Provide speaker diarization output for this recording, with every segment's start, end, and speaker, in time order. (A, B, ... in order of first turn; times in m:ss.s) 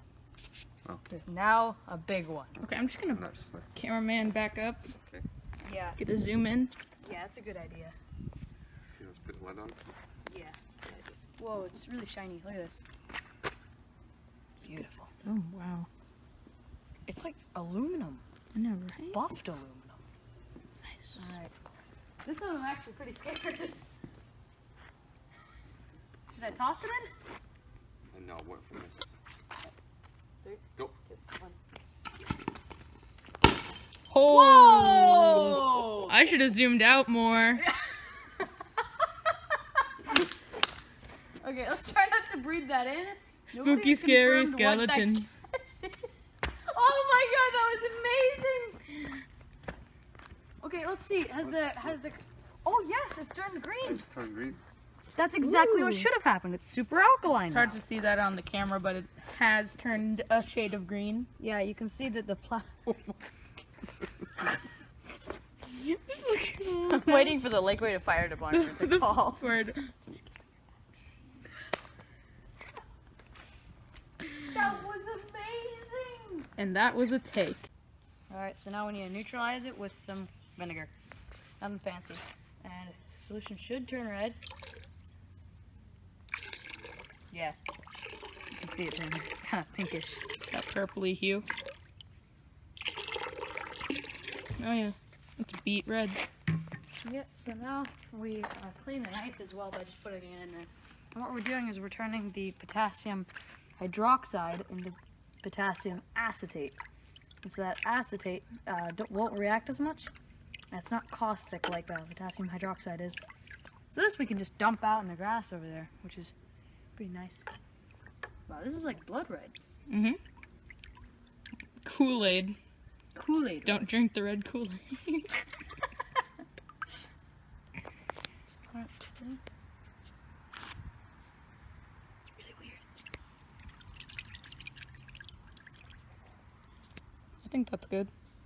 0:00.8-0:01.2 A
0:01.2-0:02.5 B
0:02.6-0:04.9 C
0:03.1-0:03.7 A
0:05.0-0:05.3 A
0:05.6-0:06.0 B
0:06.0-0:06.7 C
0:07.0-0:08.0 B
0:09.0-0:09.8 A
0:10.3-0:12.8 B
0:14.6-0:15.1 B
0:15.2-0:15.9 C
0:17.1-0:18.2 B
0:18.5-0:19.2 C
0:19.1-0:20.0 B
0:20.8-0:21.2 C
0:21.2-0:21.5 B
0:22.2-0:23.8 B
0:26.4-0:27.1 B
0:28.1-0:29.1 A
0:30.4-0:31.6 B
0:34.1-0:37.6 C
0:34.3-0:36.1 B
0:41.4-0:48.9 B
0:43.5-0:45.3 C
0:50.6-0:54.0 B
0:51.4-0:51.9 A
0:53.8-0:54.6 A
0:55.2-0:57.8 B
0:55.4-0:56.1 C
0:57.5-1:01.3 C
1:01.4-1:02.7 B
1:05.7-1:07.5 C
1:06.9-1:09.4 B
1:08.5-1:09.9 C
1:14.4-1:16.5 B
1:16.6-1:17.7 C
1:18.3-1:20.9 B
1:21.6-1:24.4 B
1:27.3-1:27.6 B
1:28.5-1:30.2 B
1:30.5-1:31.5 C
1:34.6-1:36.2 C
1:37.0-1:46.8 B
1:47.4-1:50.1 B
1:50.7-1:53.2 B
1:53.9-1:56.3 B
1:57.0-1:57.4 B
1:58.5-1:59.6 B
1:59.9-2:00.2 C
2:01.8-2:02.6 C
2:03.1-2:03.9 B
2:03.6-2:05.3 C
2:08.7-2:09.4 B
2:12.2-2:12.8 B
2:17.4-2:18.1 C